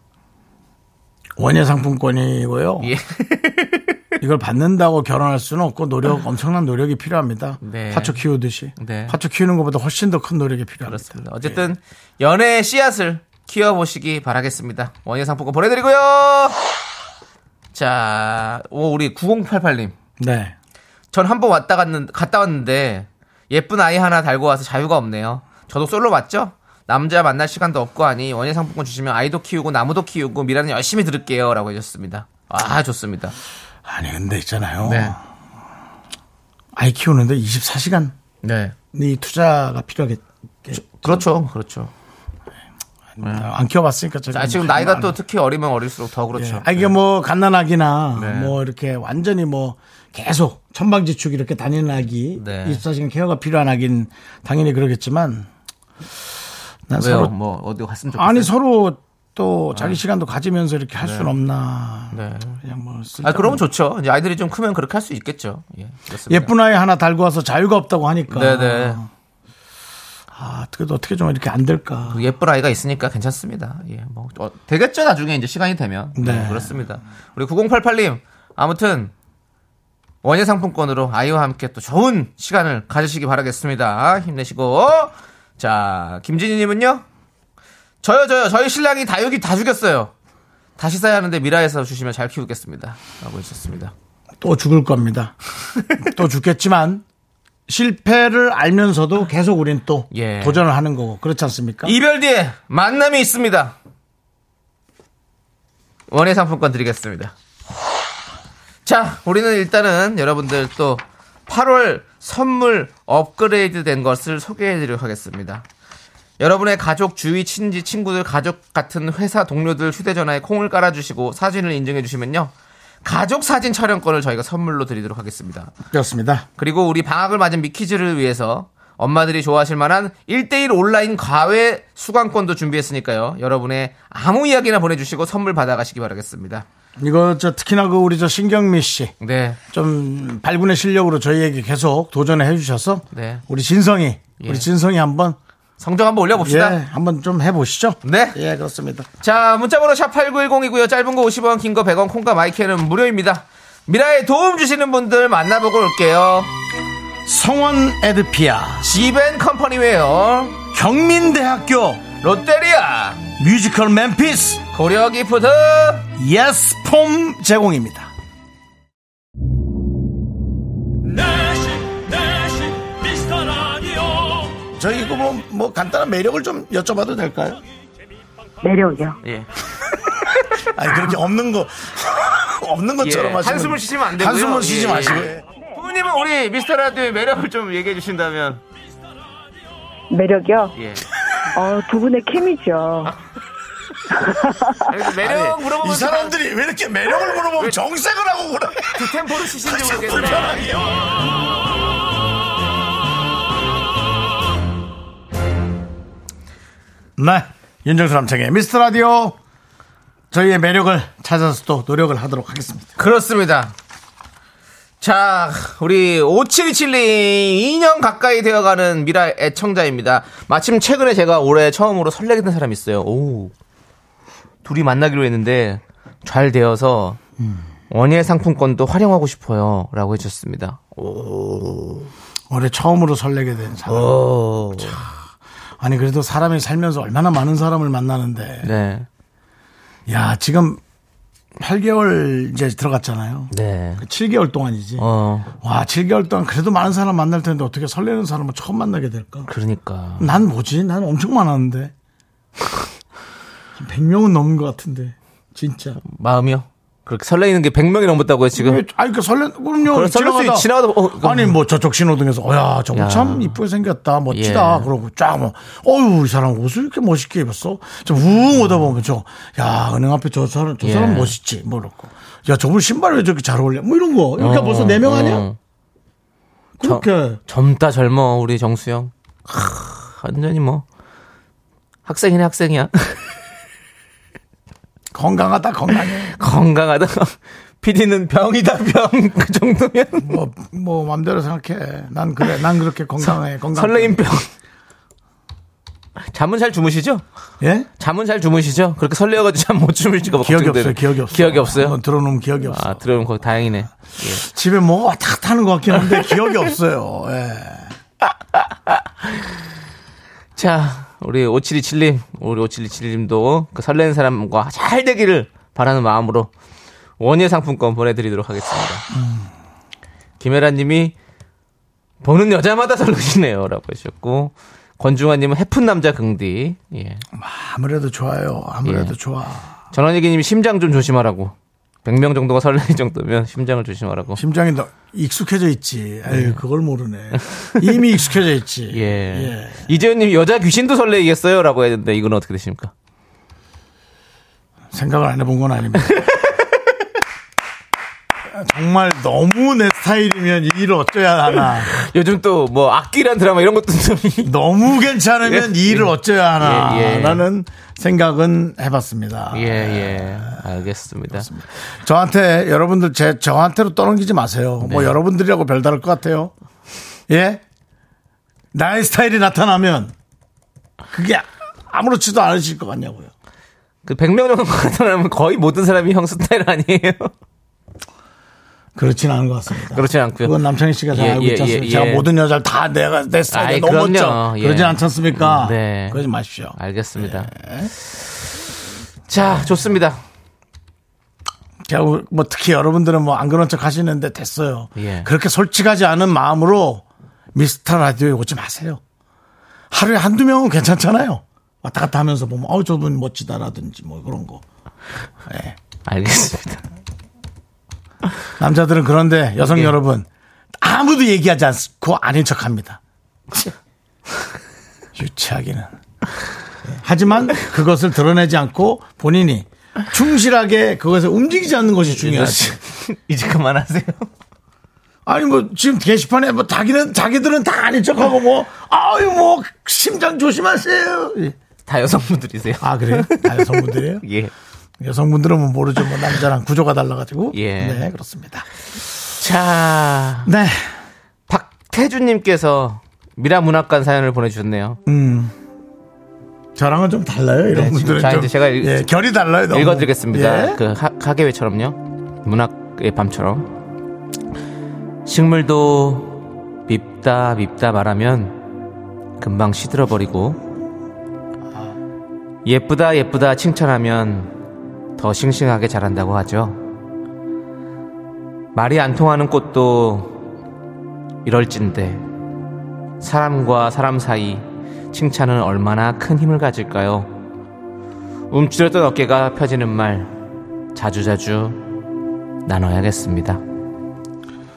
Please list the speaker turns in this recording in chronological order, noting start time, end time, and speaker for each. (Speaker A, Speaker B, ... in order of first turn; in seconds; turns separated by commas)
Speaker A: 1.4-2.9, Speaker B: 2.8-4.0, Speaker A: 4.2-11.7, Speaker B: 7.6-8.2, Speaker B: 8.8-9.2, Speaker B: 10.9-16.6, Speaker B: 17.7-19.9, Speaker A: 20.2-20.6, Speaker B: 21.1-33.4, Speaker A: 33.9-35.2, Speaker B: 34.9-35.1, Speaker A: 36.8-38.1, Speaker B: 38.4-38.8, Speaker A: 38.9-41.2, Speaker B: 40.7-41.9, Speaker A: 43.2-45.2, Speaker B: 44.3-46.9, Speaker A: 46.4-55.5, Speaker B: 48.1-48.6, Speaker B: 52.4-52.8, Speaker A: 56.9-57.3, Speaker B: 57.0-58.5, Speaker A: 58.1-63.6, Speaker B: 59.7-60.0, Speaker B: 61.0-61.3, Speaker B: 62.1-62.6, Speaker B: 63.2-66.5, Speaker A: 66.3-69.1, Speaker B: 68.3-69.0, Speaker A: 70.3-72.2, Speaker B: 72.1-79.1, Speaker A: 76.2-76.8, Speaker B: 80.2-87.0, Speaker B: 88.0-90.1, Speaker B: 90.8-93.9, Speaker A: 94.4-95.3, Speaker A: 96.0-97.0, Speaker A: 97.7-102.0, Speaker B: 100.1-100.6, Speaker B: 101.8-103.8, Speaker B: 106.1-107.3, Speaker B: 108.8-115.7, Speaker B: 116.4-122.5, Speaker B: 123.0-125.7, Speaker A: 125.9-126.5, Speaker B: 126.6-136.7, Speaker A: 137.0-139.1, Speaker B: 139.2-139.6, Speaker A: 139.7-145.4, Speaker B: 143.1-143.4, Speaker B: 144.4-144.7, Speaker B: 145.8-146.8, Speaker A: 146.4-149.1, Speaker B: 148.0-148.4, Speaker B: 149.2-156.5, Speaker A: 157.3-158.9, Speaker B: 158.8-160.6, Speaker A: 160.7-162.0, Speaker B: 162.2-163.2, Speaker A: 163.4-164.6, Speaker B: 164.7-166.1, Speaker A: 166.2-168.1, Speaker C: 171.0-174.6, Speaker A: 174.8-177.6, Speaker D: 178.6-179.2, Speaker B: 179.2-179.5, Speaker A: 180.7-185.4, Speaker B: 183.0-188.6, Speaker D: 190.1-190.7, Speaker B: 190.8-191.1, Speaker D: 191.5-193.1, Speaker D: 194.1-194.9, Speaker B: 194.8-196.4, Speaker A: 195.1-201.2, Speaker B: 198.9-201.0, Speaker A: 207.2-209.4, Speaker A: 210.3-212.9, Speaker B: 213.0-213.7, Speaker B: 215.0-223.5, Speaker B: 224.7-227.2, Speaker A: 227.4-227.7, Speaker B: 227.9-232.1, Speaker A: 232.5-234.2, Speaker B: 233.9-235.0, Speaker A: 234.8-235.1, Speaker A: 235.8-238.7, Speaker B: 238.6-239.1, Speaker A: 240.1-240.8, Speaker A: 241.6-245.1, Speaker B: 243.5-244.0, Speaker B: 245.0-245.5, Speaker A: 245.6-249.5, Speaker B: 249.5-250.4, Speaker A: 250.2-251.9, Speaker A: 253.8-256.0, Speaker B: 256.0-258.8, Speaker A: 258.6-275.5, Speaker B: 259.9-261.6, Speaker B: 262.9-263.6, Speaker B: 264.3-264.9, Speaker B: 270.8-271.4, Speaker B: 274.4-275.6, Speaker A: 276.8-277.4, Speaker B: 276.8-280.9, Speaker B: 282.1-283.3, Speaker A: 285.1-286.4, Speaker B: 286.1-290.4, Speaker A: 290.2-294.2, Speaker B: 293.2-294.5, Speaker B: 296.3-297.2, Speaker A: 297.6-297.9, Speaker B: 298.0-302.0, Speaker A: 300.3-303.0, Speaker B: 302.6-304.4, Speaker A: 304.4-307.9, Speaker B: 308.5-309.6, Speaker B: 310.6-316.5, Speaker B: 317.2-319.1, Speaker A: 319.1-319.5, Speaker B: 320.4-321.1, Speaker B: 322.2-327.2, Speaker A: 327.3-329.8, Speaker B: 328.8-329.1, Speaker B: 329.9-331.5, Speaker B: 332.1-334.4, Speaker A: 334.4-339.9, Speaker B: 336.3-336.6, Speaker B: 337.4-337.9, Speaker B: 338.9-342.9, Speaker A: 344.9-346.3, Speaker B: 346.1-346.5, Speaker A: 348.5-351.9, Speaker B: 351.9-354.5, Speaker A: 354.4-360.7, Speaker B: 355.4-357.4, Speaker B: 359.5-361.5, Speaker A: 361.3-366.5, Speaker B: 364.8-365.2, Speaker A: 367.3-367.6, Speaker A: 368.7-370.1, Speaker A: 371.1-373.3, Speaker B: 374.1-377.3, Speaker A: 378.9-387.9, Speaker B: 379.9-380.6, Speaker B: 381.1-382.3, Speaker B: 383.5-387.5, Speaker B: 389.3-390.2, Speaker A: 391.9-399.0, Speaker B: 395.0-395.3, Speaker A: 399.9-404.6, Speaker A: 405.5-405.8, Speaker B: 406.1-406.8, Speaker A: 408.6-410.3, Speaker B: 409.6-409.9, Speaker A: 410.8-413.0, Speaker A: 415.1-415.9, Speaker A: 416.9-422.8, Speaker B: 422.1-424.3, Speaker A: 425.3-431.6, Speaker B: 431.9-434.5, Speaker A: 432.8-434.2, Speaker A: 435.0-438.7, Speaker B: 437.5-438.1, Speaker B: 439.4-440.5, Speaker A: 440.5-440.9, Speaker B: 441.5-445.0, Speaker A: 445.1-445.5, Speaker A: 446.8-450.8, Speaker B: 447.7-449.1, Speaker B: 449.7-453.7, Speaker B: 455.3-458.6, Speaker B: 459.4-460.6, Speaker B: 462.6-464.5, Speaker B: 465.2-466.8, Speaker B: 468.8-470.4, Speaker B: 471.4-472.2, Speaker B: 473.2-477.3, Speaker B: 478.5-480.3, Speaker B: 480.9-481.8, Speaker B: 482.6-483.6